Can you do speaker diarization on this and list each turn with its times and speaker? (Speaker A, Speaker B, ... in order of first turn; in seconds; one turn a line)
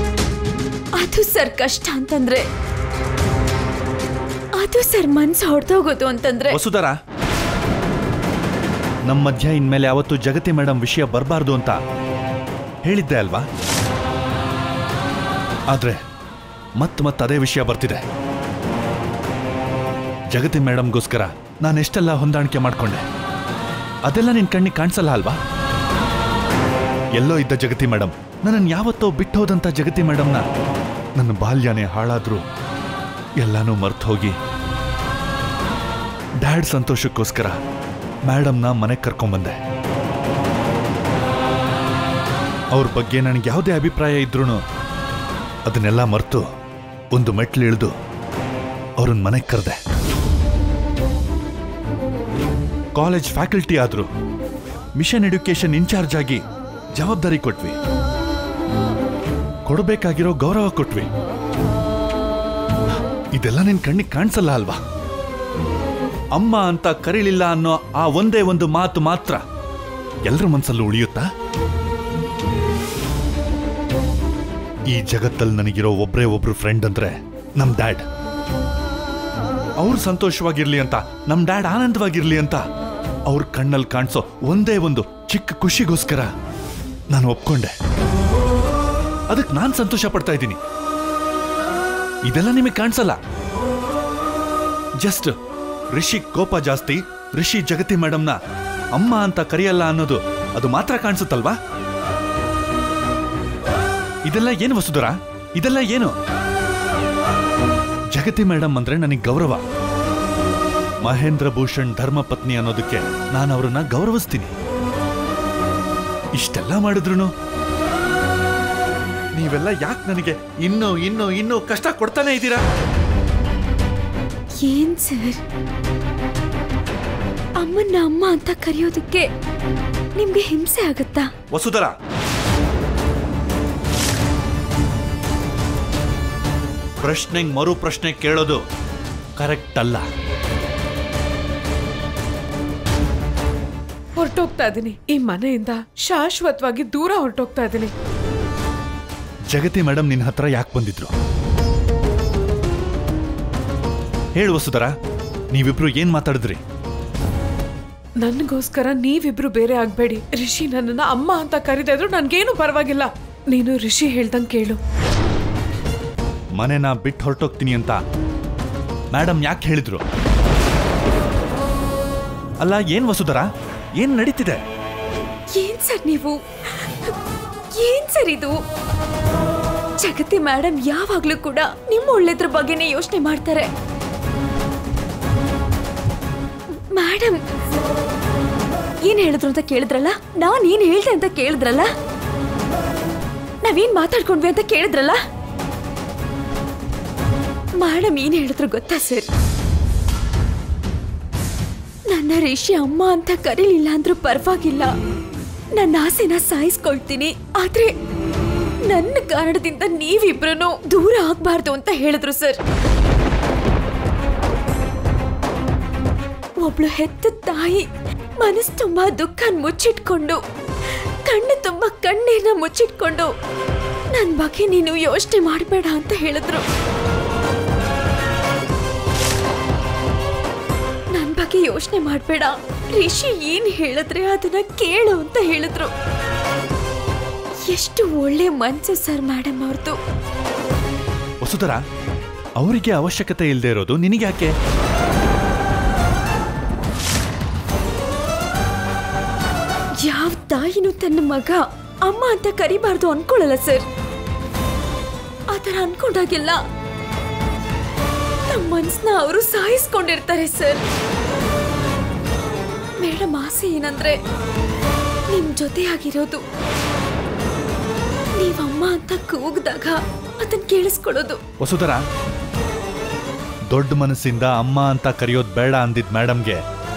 Speaker A: 0.9-2.5
Speaker A: 4.6-6.6
Speaker B: 6.5-7.0
Speaker B: 9.1-11.8
Speaker B: 12.8-13.4
Speaker B: 15.7-16.0
Speaker B: 16.8-18.0
Speaker B: 20.3-23.0
Speaker B: 24.1-25.4
Speaker B: 27.1-30.4
Speaker B: 31.2-32.4
Speaker B: 33.4-34.4
Speaker B: 36.4-37.6
Speaker B: 38.2-39.6
Speaker B: 42.7-44.6
Speaker B: 45.6-46.5
Speaker B: 47.1-47.9
Speaker B: 49.0-49.8
Speaker B: 52.9-54.1
Speaker B: 55.0-56.4
Speaker B: 56.9-57.8
Speaker B: 59.6-61.1
Speaker B: 63.3-64.8
Speaker B: 66.3-69.4
Speaker B: 70.2-71.3
Speaker B: 74.9-78.0
Speaker B: 79.8-82.6
Speaker B: 83.2-86.3
Speaker B: 87.1-87.7
Speaker B: 89.3-90.6
Speaker B: 92.2-93.2
Speaker B: 95.0-95.3
Speaker B: 95.9-98.4
Speaker B: 98.9-101.6
Speaker B: 104.2-106.1
Speaker B: 108.1-109.6
Speaker B: 111.0-114.5
Speaker B: 116.3-117.3
Speaker B: 119.3-122.6
Speaker A: 124.6-125.4
Speaker A: 127.6-129.3
Speaker A: 130.2-131.3
Speaker B: 131.5-131.9
Speaker B: 137.0-138.6
Speaker B: 139.4-140.1
Speaker C: 144.2-147.9
Speaker B: 149.5-151.1
Speaker B: 154.3-154.9
Speaker B: 155.5-156.6
Speaker C: 158.2-164.8
Speaker B: 166.6-168.0
Speaker B: 169.1-170.0
Speaker B: 172.6-174.6
Speaker A: 175.5-177.1
Speaker A: 177.7-178.6
Speaker A: 180.0-183.7
Speaker A: 186.7-187.4
Speaker A: 189.0-191.9
Speaker A: 193.6-195.2
Speaker A: 197.8-199.3
Speaker A: 202.1-204.9
Speaker A: 205.7-207.9
Speaker A: 208.8-212.6
Speaker A: 216.6-217.8
Speaker A: 218.4-220.4
Speaker A: 221.2-223.3
Speaker A: 224.1-226.6
Speaker A: 231.1-235.9
Speaker A: 237.7-240.0
Speaker B: 241.4-241.8
Speaker B: 242.6-244.5
Speaker A: 250.0-253.8
Speaker A: 255.5-256.6
Speaker A: 258.5-260.8
Speaker A: 263.0-264.2
Speaker A: 265.3-266.4
Speaker A: 268.4-271.4
Speaker B: 271.6-272.0
Speaker B: 273.7-276.6